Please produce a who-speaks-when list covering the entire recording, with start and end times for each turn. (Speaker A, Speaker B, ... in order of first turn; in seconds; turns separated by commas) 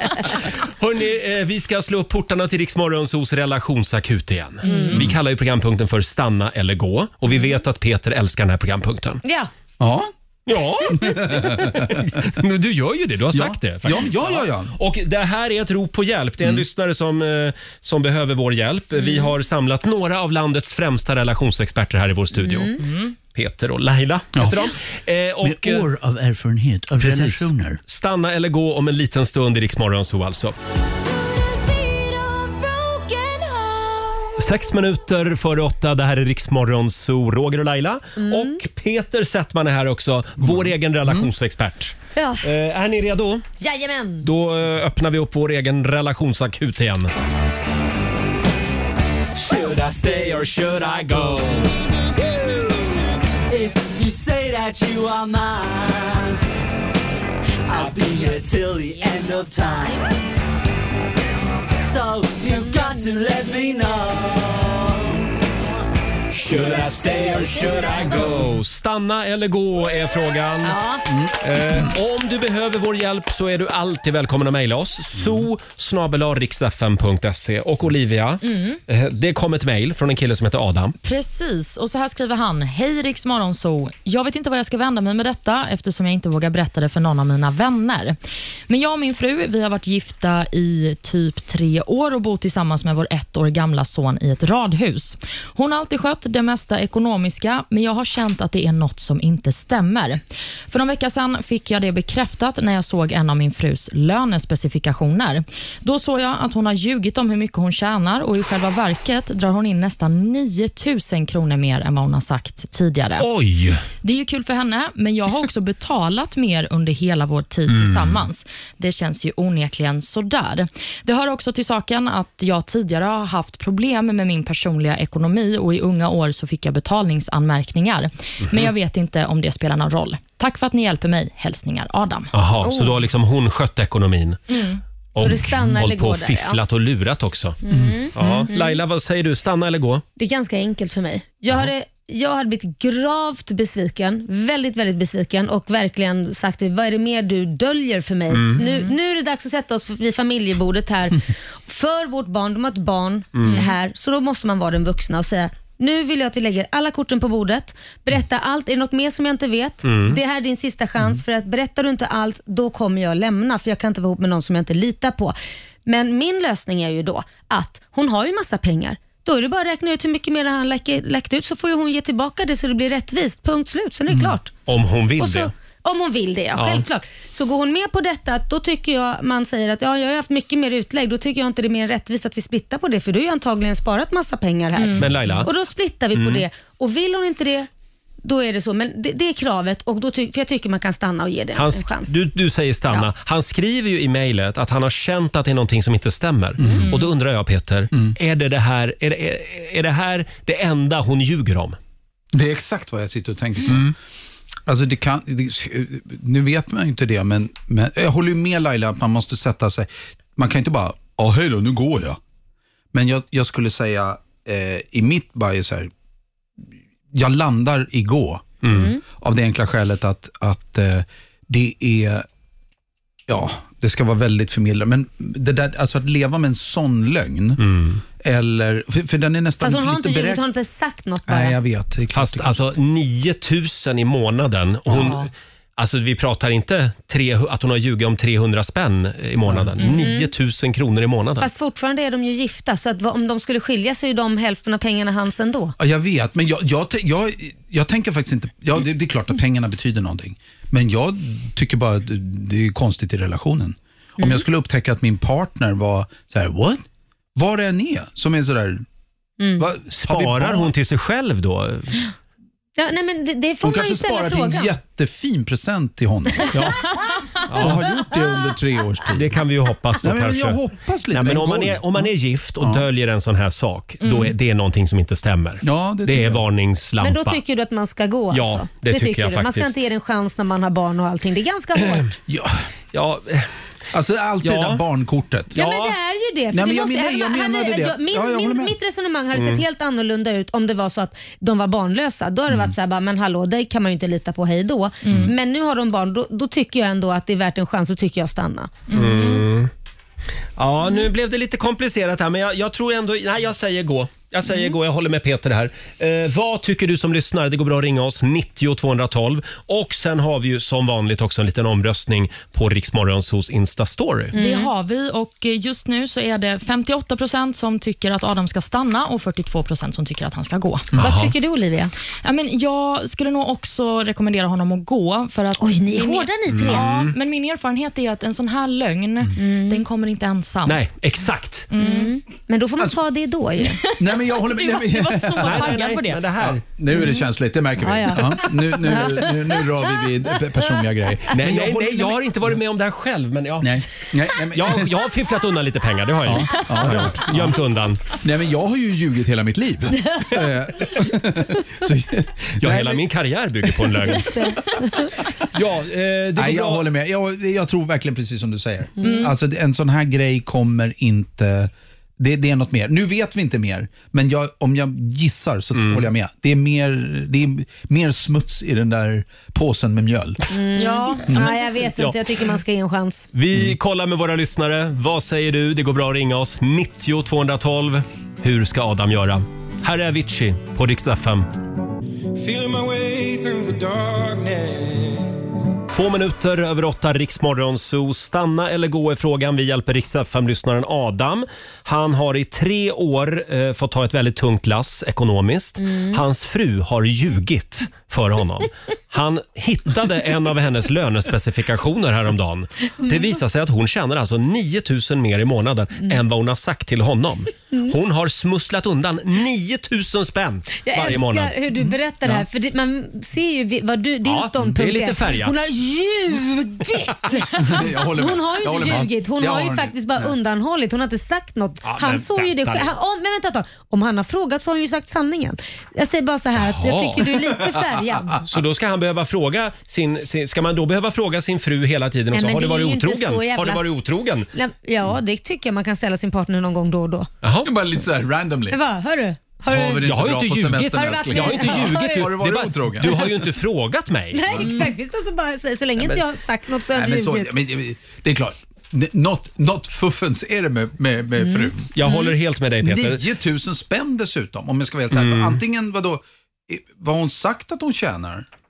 Speaker A: 0.3-9.2, Speaker B: 4.6-5.0, Speaker C: 4.9-5.2, Speaker B: 9.2-9.5, Speaker C: 9.8-10.1, Speaker A: 10.5-22.8, Speaker C: 10.9-12.2, Speaker C: 13.3-14.8, Speaker B: 19.0-19.3, Speaker B: 22.4-22.8, Speaker D: 22.8-23.1, Speaker A: 23.3-25.9, Speaker C: 24.3-24.7, Speaker C: 25.4-27.8, Speaker A: 27.0-30.5, Speaker B: 31.0-34.3, Speaker A: 34.4-43.5, Speaker B: 38.2-38.6, Speaker C: 40.4-41.3, Speaker B: 42.1-42.5, Speaker B: 43.6-44.3, Speaker A: 44.2-47.1, Speaker A: 49.6-51.7, Speaker E: 49.7-51.0, Speaker E: 53.5-56.3, Speaker E: 57.8-60.0, Speaker B: 59.5-59.9, Speaker E: 61.9-65.0, Speaker B: 62.8-63.8, Speaker A: 66.3-70.8, Speaker B: 70.6-71.0, Speaker C: 71.1-71.9, Speaker A: 71.4-80.9, Speaker C: 75.2-75.5, Speaker D: 81.0-88.2, Speaker D: 88.7-113.2, Speaker A: 113.2-113.8, Speaker D: 114.0-132.3, Speaker A: 117.7-118.2, Speaker A: 132.3-134.4, Speaker B: 132.6-133.0, Speaker D: 134.5-134.8, Speaker B: 135.2-136.6, Speaker A: 135.2-137.6, Speaker B: 137.6-138.8, Speaker C: 137.7-138.1, Speaker A: 138.1-140.0, Speaker B: 140.2-174.6, Speaker A: 148.3-148.6, Speaker A: 153.3-153.6, Speaker A: 159.8-160.2, Speaker A: 174.7-175.5, Speaker B: 175.2-187.7, Speaker A: 176.5-176.8, Speaker D: 184.8-185.1, Speaker A: 184.9-185.5, Speaker A: 186.1-186.4, Speaker B: 188.2-192.2, Speaker A: 191.5-201.8, Speaker C: 196.6-196.9, Speaker C: 202.3-203.9, Speaker A: 203.7-203.9, Speaker C: 204.7-212.2, Speaker C: 212.9-215.9, Speaker C: 217.1-218.6, Speaker A: 218.6-218.9, Speaker B: 218.7-219.0, Speaker C: 219.1-222.2, Speaker C: 223.3-227.6, Speaker A: 227.6-228.0, Speaker C: 228.2-230.4, Speaker B: 229.6-231.6, Speaker C: 231.3-232.7, Speaker A: 232.1-241.5, Speaker C: 234.9-235.2, Speaker C: 239.5-239.8, Speaker B: 239.8-240.3, Speaker B: 241.4-245.7, Speaker C: 245.8-256.8, Speaker B: 254.2-254.4, Speaker C: 257.3-258.8, Speaker B: 259.4-259.7, Speaker C: 259.6-260.7, Speaker A: 259.9-262.0, Speaker B: 262.8-264.7, Speaker C: 263.6-266.7, Speaker A: 266.5-266.8, Speaker A: 267.5-267.9, Speaker C: 267.5-269.3, Speaker A: 269.1-270.6, Speaker C: 270.0-272.8, Speaker A: 271.1-277.4, Speaker D: 274.0-274.3, Speaker C: 275.6-276.4, Speaker B: 277.0-282.1, Speaker A: 278.3-279.8, Speaker C: 282.3-282.6, Speaker A: 282.9-283.5, Speaker C: 283.9-285.6, Speaker A: 284.4-284.8, Speaker A: 285.5-285.9, Speaker B: 285.5-298.9, Speaker C: 286.5-288.8, Speaker A: 289.3-289.6, Speaker D: 298.9-299.4, Speaker A: 298.9-299.7, Speaker A: 300.6-314.3, Speaker B: 304.5-304.7, Speaker B: 314.3-314.7, Speaker D: 314.3-320.9, Speaker A: 320.9-321.3, Speaker B: 320.9-321.9, Speaker D: 322.2-330.8, Speaker B: 325.6-326.9, Speaker A: 326.5-327.1, Speaker B: 329.4-329.8, Speaker A: 330.6-331.7, Speaker D: 331.7-332.1, Speaker B: 331.7-333.9, Speaker D: 333.6-336.2, Speaker C: 334.0-335.8, Speaker A: 335.4-336.6, Speaker C: 336.4-342.6, Speaker B: 336.9-337.2, Speaker B: 337.8-340.1, Speaker A: 341.3-344.0, Speaker C: 343.6-344.9, Speaker A: 344.5-348.0, Speaker C: 346.2-347.6, Speaker C: 348.1-353.0, Speaker A: 352.6-354.4, Speaker C: 353.7-354.2, Speaker B: 354.2-355.1, Speaker A: 355.5-356.9, Speaker C: 356.4-370.5, Speaker B: 359.0-359.3, Speaker D: 359.0-359.3, Speaker A: 365.8-366.0, Speaker B: 370.5-373.3, Speaker D: 370.8-371.9, Speaker A: 373.3-381.5, Speaker F: 382.4-385.5, Speaker A: 385.9-411.6, Speaker B: 395.8-396.2, Speaker B: 403.0-403.3, Speaker B: 410.7-428.4, Speaker A: 414.2-415.6, Speaker C: 417.5-420.3, Speaker A: 421.8-422.9, Speaker A: 426.5-427.2, Speaker C: 427.7-428.0, Speaker A: 428.4-434.5, Speaker B: 432.3-434.0, Speaker B: 434.5-437.3, Speaker A: 437.4-437.7, Speaker C: 437.6-438.8, Speaker B: 438.7-440.1, Speaker C: 439.7-443.5, Speaker A: 440.0-444.8, Speaker B: 440.9-442.4, Speaker B: 444.3-447.5, Speaker A: 446.0-446.2, Speaker C: 446.9-451.9, Speaker B: 451.4-452.3, Speaker A: 451.9-453.2, Speaker C: 452.8-458.5, Speaker A: 455.1-455.6